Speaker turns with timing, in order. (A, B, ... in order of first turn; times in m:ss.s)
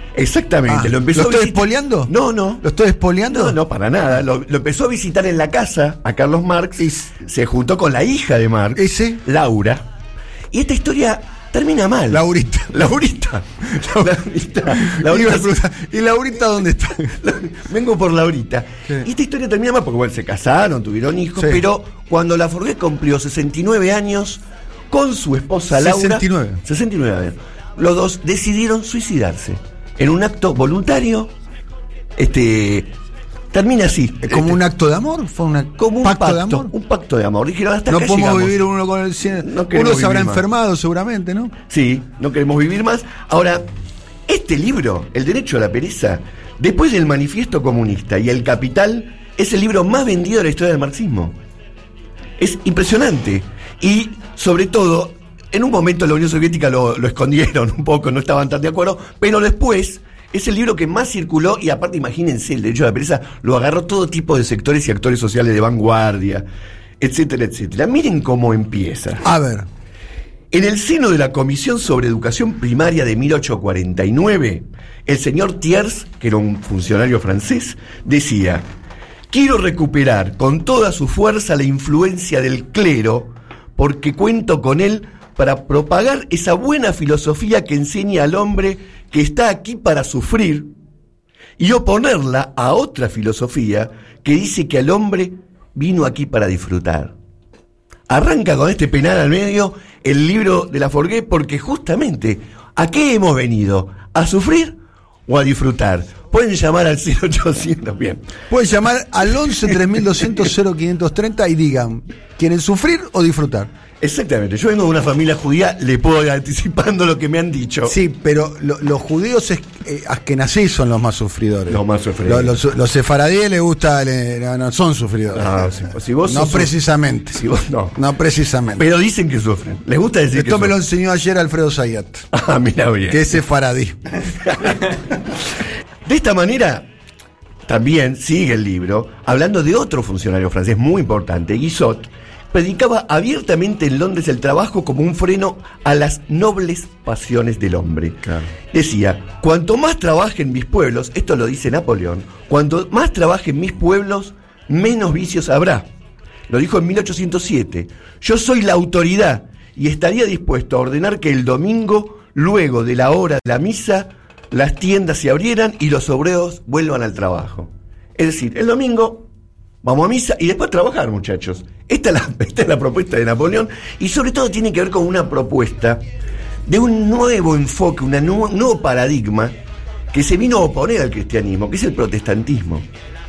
0:00.1-0:02.6 A
0:00.6-0:03.6 B
0:03.2-0:09.9 A
0:06.8-0:07.1 B
0:08.8-0:09.2 B
0:10.5-0:13.4 A
0:12.1-0:12.9 B
0:13.6-0:14.1 B
0:14.0-0:15.5 A
0:14.7-0:17.1 B
0:17.2-0:31.3 A
0:21.4-0:21.6 B
0:25.7-0:26.6 B
0:32.2-0:32.9 A
0:33.5-0:34.6 A
0:34.2-0:36.7 B
0:35.8-0:38.6 A
0:37.9-0:41.5 B
0:39.4-0:40.4 A
0:41.7-0:43.6 A
0:44.3-0:51.4 A
0:52.4-1:06.4 A
1:07.0-1:09.2 A
1:09.2-1:09.6 B
1:10.5-1:18.6 A
1:19.3-1:30.7 A
1:31.6-1:37.1 A
1:38.1-1:48.2 A
1:48.5-1:53.7 B
1:54.0-1:57.9 A
1:57.8-2:07.4 B
2:01.7-2:02.6 A
2:05.3-2:06.7 A
2:07.3-2:08.0 A
2:07.9-2:08.8 B
2:08.8-2:10.7 A
2:10.3-2:12.2 B
2:12.3-2:13.2 A
2:13.1-2:14.0 B
2:14.4-2:14.8 A
2:16.0-2:16.9 A
2:17.6-2:35.9 A
2:36.5-2:49.3 A
2:49.8-2:56.0 A
2:56.7-2:59.6 A
3:00.1-3:02.9 A